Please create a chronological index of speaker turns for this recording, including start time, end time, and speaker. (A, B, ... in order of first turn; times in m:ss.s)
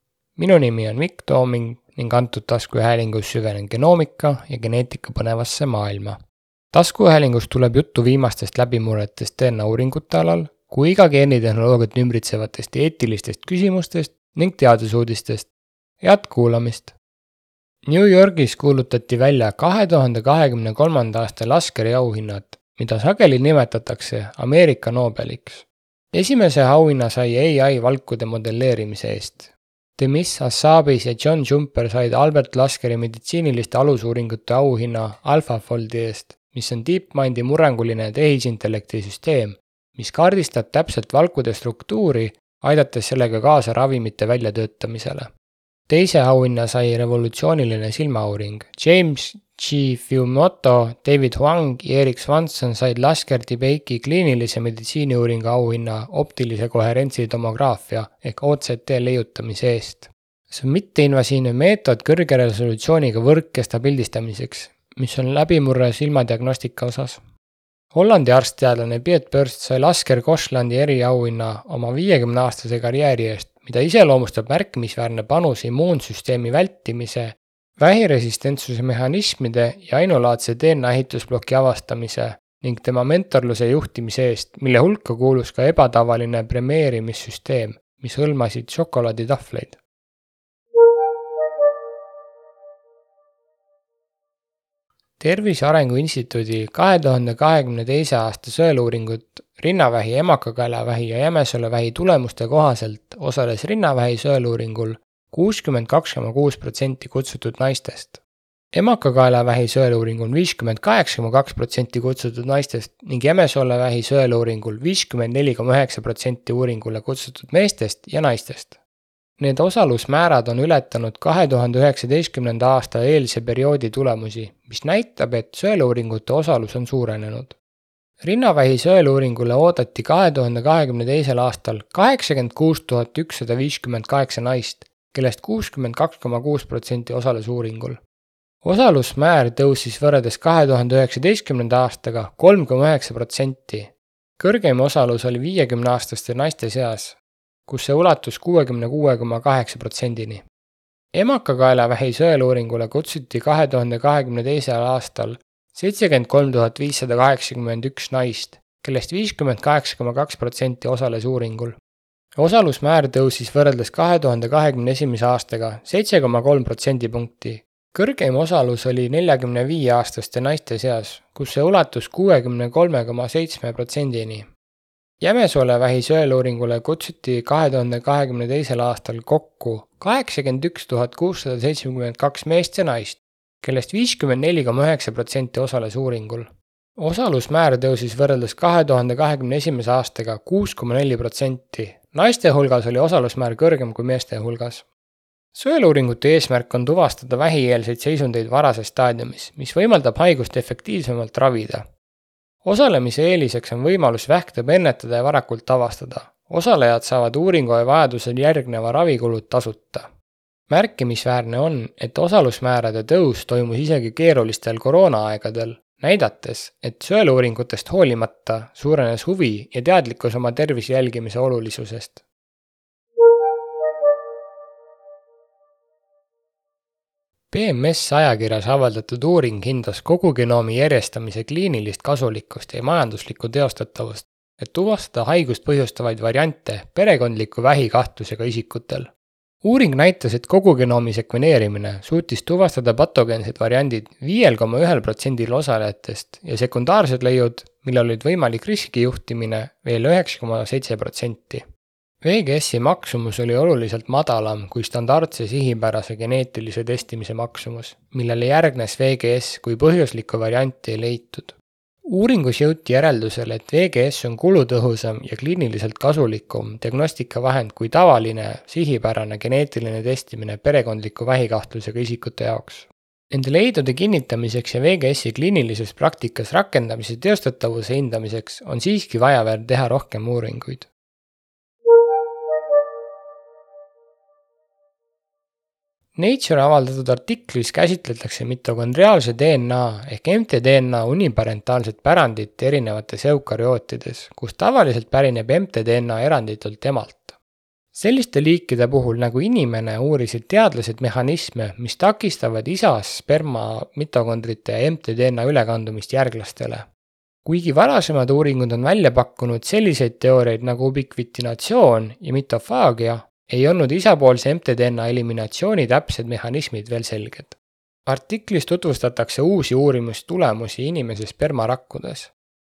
0:00.4-0:06.2 A
0:06.7-0:15.5 A
0:16.0-0:16.9 A
0:17.8-0:45.3 A
0:45.9-1:07.2 A
1:07.9-1:29.8 A
1:35.2-1:58.8 A
1:59.4-2:07.6 A
2:08.2-2:18.0 A
2:18.6-2:30.4 A
2:31.1-2:41.8 A
2:42.3-2:54.5 A
2:55.2-3:14.8 A
3:15.5-3:21.8 A
3:22.6-3:30.1 A
3:30.7-3:42.2 A
3:47.5-3:59.1 A
3:59.6-4:11.6 A
4:12.2-4:40.9 A
4:46.2-4:57.4 A
4:57.9-5:06.9 A
5:07.4-5:22.3 A